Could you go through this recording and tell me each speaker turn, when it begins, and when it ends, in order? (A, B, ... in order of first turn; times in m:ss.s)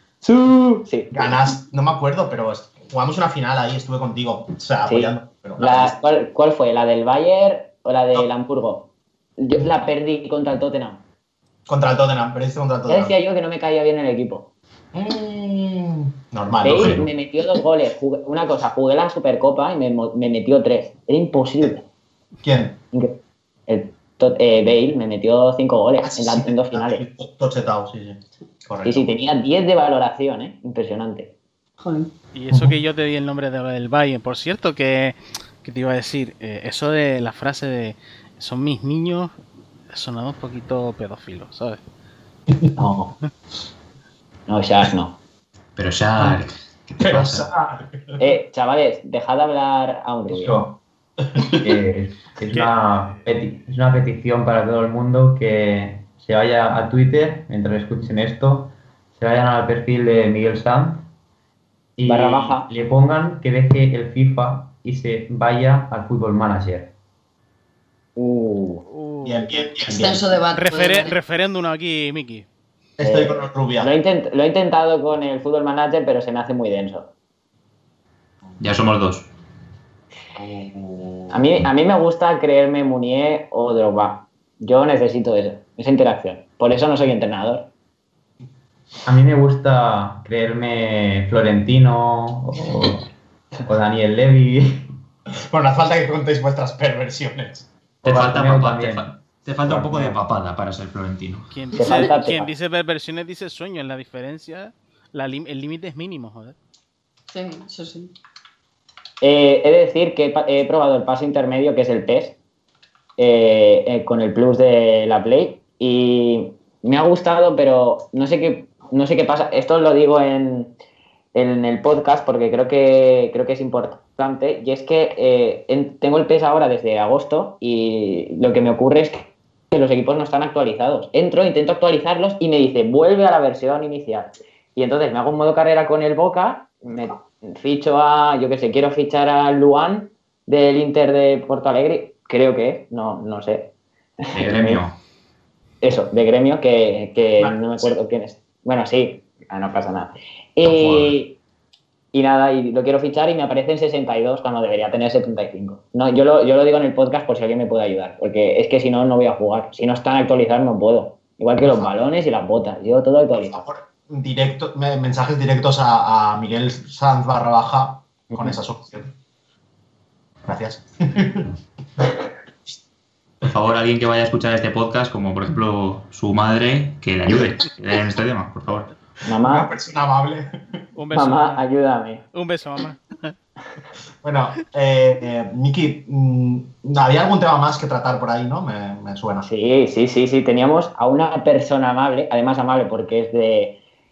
0:00.2-0:01.4 A
0:01.1-0:05.9 B
0:04.9-0:08.8 A
0:09.4-0:11.0 A
0:11.7-0:13.1 B
0:12.9-0:14.4 A
0:14.9-0:17.0 B
0:16.6-0:21.8 A
0:16.7-0:17.0 C
0:22.4-0:22.8 B
0:23.7-0:27.0 A
0:26.0-0:29.1 B
0:28.8-0:31.3 A
0:31.8-0:32.1 D
0:32.3-0:39.4 E
0:39.9-0:41.8 E
0:42.8-0:43.1 A
0:44.5-0:45.1 A
0:45.8-0:47.5 C
0:47.0-0:48.0 B
0:48.2-0:50.5 A
0:50.3-0:50.7 B
0:51.3-0:51.7 B
0:51.5-1:01.1 F
1:02.0-1:06.9 F
1:02.1-1:02.7 A
1:08.2-1:08.8 A
1:08.9-1:09.7 E
1:09.2-1:10.4 B
1:09.8-1:11.2 D
1:10.5-1:12.5 E
1:13.0-1:13.9 B
1:13.0-1:17.1 A
1:18.6-1:19.3 C
1:20.4-1:21.4 B
1:21.3-1:27.6 A
1:29.1-1:33.1 F
1:33.6-1:34.9 F
1:35.5-1:37.7 B
1:38.0-1:39.1 F
1:38.0-1:41.5 C
1:39.7-1:40.2 F
1:41.5-1:46.6 E
1:41.8-1:42.5 A
1:47.3-1:48.1 D
1:49.2-1:52.4 A
1:53.2-2:00.7 A
2:01.4-2:23.6 A
2:24.2-2:24.8 A
2:24.3-2:25.0 C
2:25.8-2:31.3 A
2:27.4-2:27.9 B
2:30.7-2:31.2 C
2:32.1-2:43.6 A
2:41.6-2:41.9 B
2:43.4-2:49.1 B
2:48.3-2:48.6 A
2:50.4-2:52.0 B
2:53.4-2:58.9 C
2:59.3-2:59.7 A
2:59.3-3:00.6 B
3:01.0-3:01.6 E
3:01.1-3:02.2 A
3:02.3-3:03.4 E
3:04.2-3:09.5 B
3:09.5-3:13.7 A